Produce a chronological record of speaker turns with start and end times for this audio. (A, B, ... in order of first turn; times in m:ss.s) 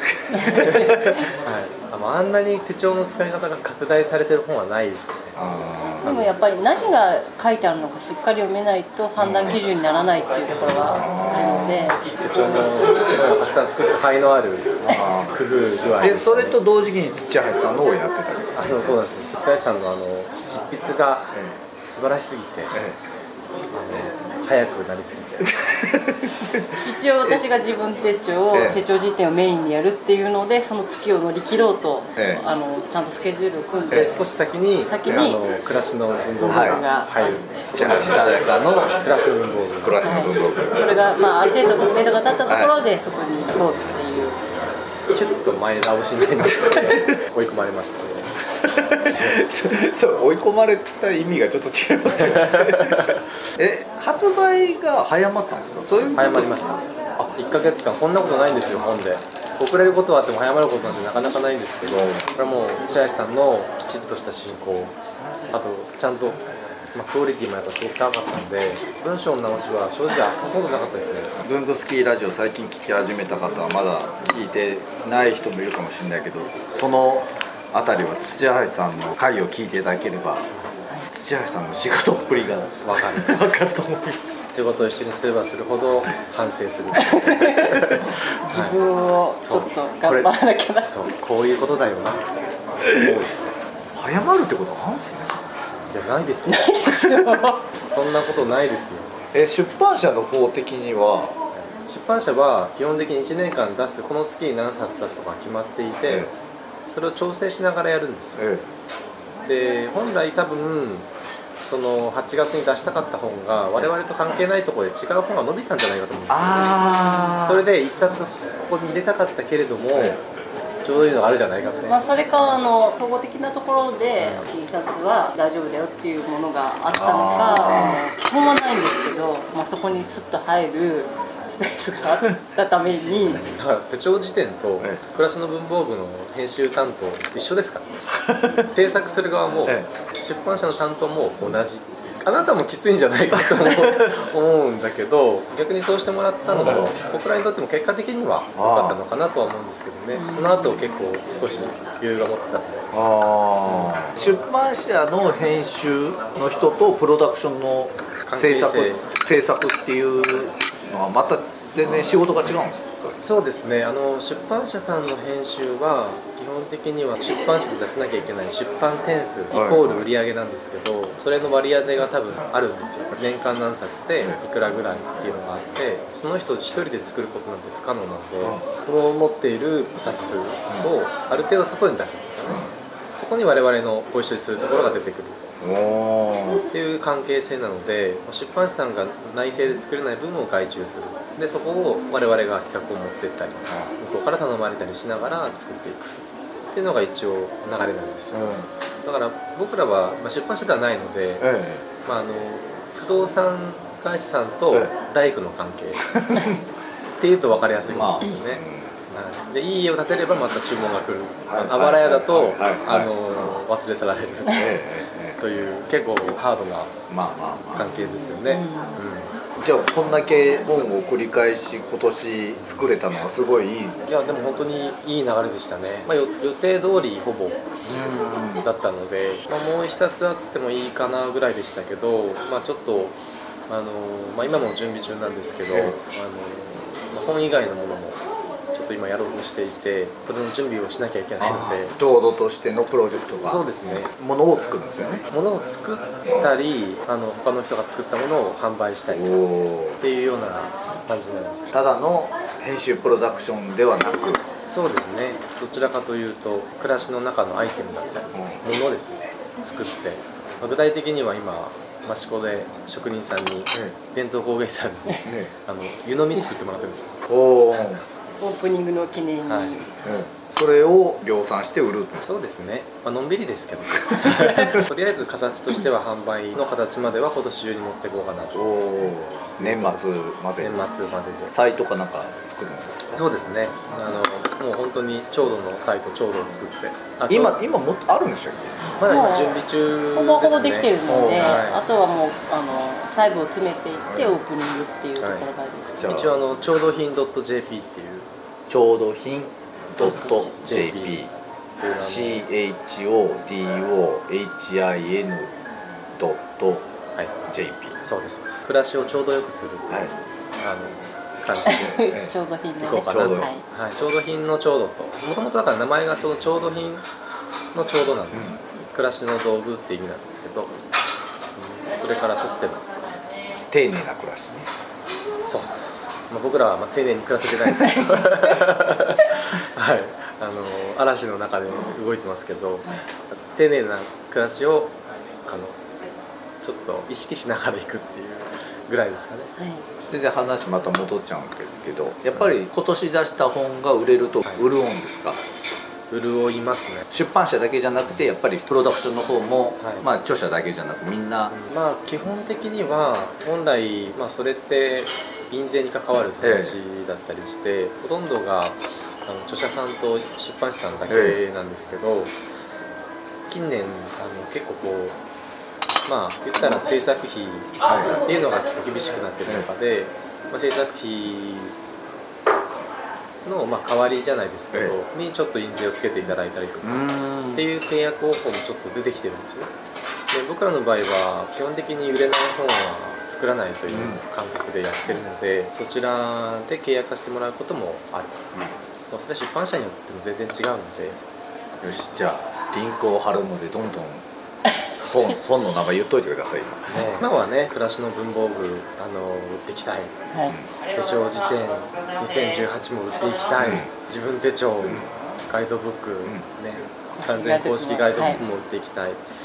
0:00.3-0:01.1 A
0:00.3-0:05.4 B
0:05.3-0:06.1 A
0:06.0-0:06.4 B
0:06.0-0:12.1 C
0:09.2-0:09.6 A
0:10.9-0:12.0 A
0:12.1-0:16.6 B
0:14.9-0:15.4 A
0:16.0-0:19.0 A
0:18.5-0:21.3 B
0:21.3-0:21.6 A
0:21.8-0:22.8 B
0:23.7-0:25.5 B
0:25.6-0:27.4 A
0:26.8-0:34.3 C
0:28.5-0:28.8 A
0:32.2-0:32.4 A
0:33.9-0:38.2 B
0:33.9-0:34.2 A
0:34.8-0:35.4 C
0:36.4-0:37.7 C
0:36.4-0:36.8 A
0:37.7-0:39.0 A
0:38.9-0:39.9 B
0:39.8-0:40.9 A
0:40.0-0:44.4 C
0:42.5-0:42.8 A
0:45.1-0:48.3 B
0:48.5-0:57.4 A
0:56.1-1:04.9 B
1:01.9-1:02.2 A
1:05.5-1:06.4 B
1:06.9-1:11.3 B
1:11.4-1:20.5 A
1:21.1-1:24.3 A
1:22.8-1:23.4 B
1:24.5-1:28.8 B
1:27.0-1:27.8 C
1:28.4-1:31.0 C
1:29.4-1:30.2 B
1:30.8-1:32.2 B
1:32.8-1:33.2 A
1:32.8-1:33.3 B
1:33.9-1:35.4 A
1:35.9-1:37.2 B
1:36.4-1:37.7 C
1:37.8-1:39.2 B
1:39.3-1:41.4 A
1:41.5-1:46.3 B
1:46.0-1:46.3 A
1:46.9-1:48.4 B
1:48.4-1:48.7 A
1:49.4-1:51.1 B
1:51.6-2:00.2 B
1:56.3-1:57.7 A
1:56.9-1:57.4 C
1:59.9-2:00.2 A
2:00.8-2:02.0 B
2:01.9-2:13.5 C
2:04.2-2:04.5 B
2:06.9-2:08.0 A
2:13.2-2:17.9 B
2:18.1-2:18.7 A
2:18.6-2:32.9 B
2:19.6-2:19.9 A
2:23.3-2:24.1 A
2:26.5-2:27.0 A
2:28.5-2:29.0 A
2:30.1-2:30.8 C
2:32.9-2:43.2 A
2:38.2-2:39.1 B
2:43.2-3:05.4 B
2:49.5-2:50.1 A
2:58.4-2:58.6 A
3:00.7-3:00.9 A
3:02.4-3:02.7 A
3:05.6-3:06.6 A
3:06.7-3:16.2 B
3:13.7-3:13.9 A
3:16.7-3:21.5 B
3:18.3-3:18.7 A
3:21.4-3:21.8 A
3:22.0-3:26.1 B
3:26.1-3:26.6 A
3:27.2-3:34.7 B
3:27.8-3:29.0 A
3:31.5-3:33.6 A
3:34.5-3:35.4 A
3:35.4-3:36.9 B
3:37.1-3:38.1 A
3:37.7-3:39.3 B
3:38.4-3:39.0 C
3:39.6-3:44.0 A
3:44.1-3:48.0 B
3:47.8-3:48.7 A
3:48.6-3:53.2 B
3:53.7-3:58.2 B
3:55.7-3:56.0 A
3:58.7-4:01.9 B
4:01.4-4:05.2 A
4:03.4-4:04.1 B
4:05.3-4:09.4 B
4:09.1-4:10.0 A
4:10.0-4:11.7 B
4:11.7-4:14.4 A
4:14.7-4:27.2 B
4:18.3-4:18.7 A
4:25.2-4:25.5 A
4:27.2-4:28.0 A
4:28.4-4:30.1 C
4:29.4-4:29.8 B
4:30.0-4:32.3 A
4:32.2-4:38.6 B
4:38.5-4:40.9 A
4:39.6-4:40.0 B
4:40.6-4:41.5 B
4:41.5-4:43.2 A
4:43.1-4:47.6 B
4:47.3-4:49.0 A
4:49.0-4:51.8 B
4:49.0-4:56.1 C
4:51.1-4:51.6 A
4:54.1-4:54.4 A
4:55.2-4:55.4 B
4:56.0-4:56.4 A
4:56.0-4:58.3 B
4:58.7-5:01.3 A
5:00.0-5:00.6 C
5:00.0-5:01.2 B
5:01.8-5:02.4 B
5:02.0-5:05.6 A
5:06.2-5:06.9 A
5:07.5-5:08.0 A
5:08.0-5:12.1 B
5:11.6-5:13.6 C
5:12.1-5:12.3 A
5:12.8-5:17.0 B
5:12.8-5:13.5 A
5:17.7-5:20.8 B
5:18.3-5:18.6 A
5:21.6-5:22.8 B
5:23.7-5:24.7 A
5:25.5-5:35.8 B
5:36.6-5:39.5 B
5:39.6-5:39.8 C
5:40.1-5:45.4 A
5:44.4-5:44.7 B
5:46.1-5:47.1 B
5:47.1-5:51.6 A
5:49.8-5:50.1 B
5:51.5-6:02.3 B
5:56.4-5:56.8 A
6:01.1-6:01.4 A
6:03.5-6:05.2 B
6:06.1-6:11.7 B
6:07.8-6:08.2 A
6:13.4-6:19.7 B
6:16.8-6:17.7 A
6:20.3-6:28.4 B
6:23.9-6:24.2 A
6:29.1-6:31.2 B
6:31.8-6:34.2 A
6:34.9-6:37.2 A
6:35.0-6:35.6 B
6:36.9-6:40.2 B
6:40.9-6:49.2 B
6:43.6-6:43.9 A
6:44.8-6:45.1 A
6:47.2-6:48.4 C